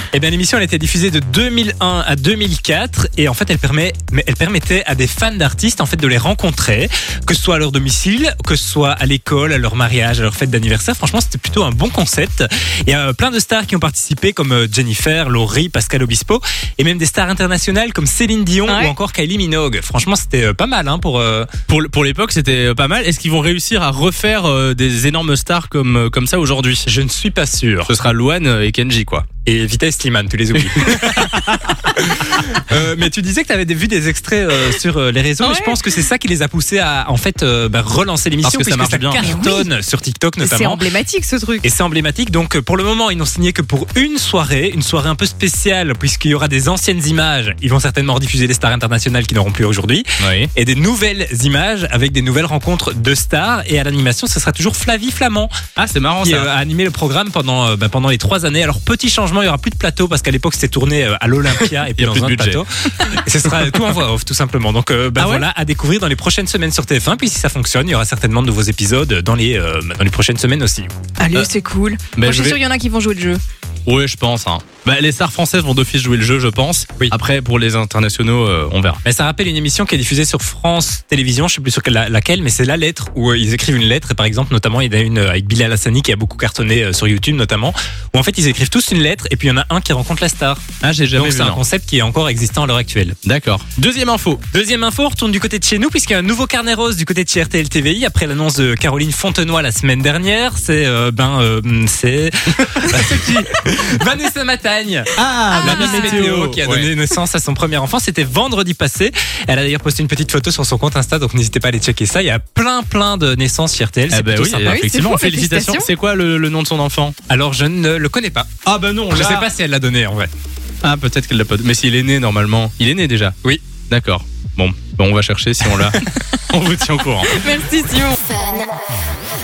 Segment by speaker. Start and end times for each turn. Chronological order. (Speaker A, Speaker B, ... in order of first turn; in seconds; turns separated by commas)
Speaker A: 0.1-21.5, Speaker B: 18.7-18.9, Speaker C: 21.7-26.9, Speaker A: 26.9-27.9, Speaker C: 27.9-29.3, Speaker A: 29.4-40.8, Speaker C: 30.7-31.9, Speaker B: 35.4-35.9, Speaker C: 38.4-39.2, Speaker B: 39.2-39.7, Speaker B: 40.4-41.6, Speaker A: 41.6-55.5, Speaker C: 50.2-50.5, Speaker C: 55.8-56.5, Speaker A: 56.2-70.9, Speaker C: 62.0-62.6, Speaker C: 65.2-65.5, Speaker B: 71.2-73.4, Speaker C: 72.1-72.6, Speaker C: 73.9-79.0, Speaker A: 79.0-90.6, Speaker C: 90.8-91.6, Speaker A: 91.1-93.2, Speaker C: 93.2-94.4, Speaker A: 94.5-114.8, Speaker C: 105.2-106.9, Speaker B: 105.5-106.3, Speaker C: 114.1-117.1, Speaker B: 114.7-115.9, Speaker A: 117.3-118.5, Speaker C: 118.7-119.5, Speaker A: 119.1-120.3, Speaker C: 120.8-123.3, Speaker C: 123.9-127.4, Speaker B: 127.3-128.4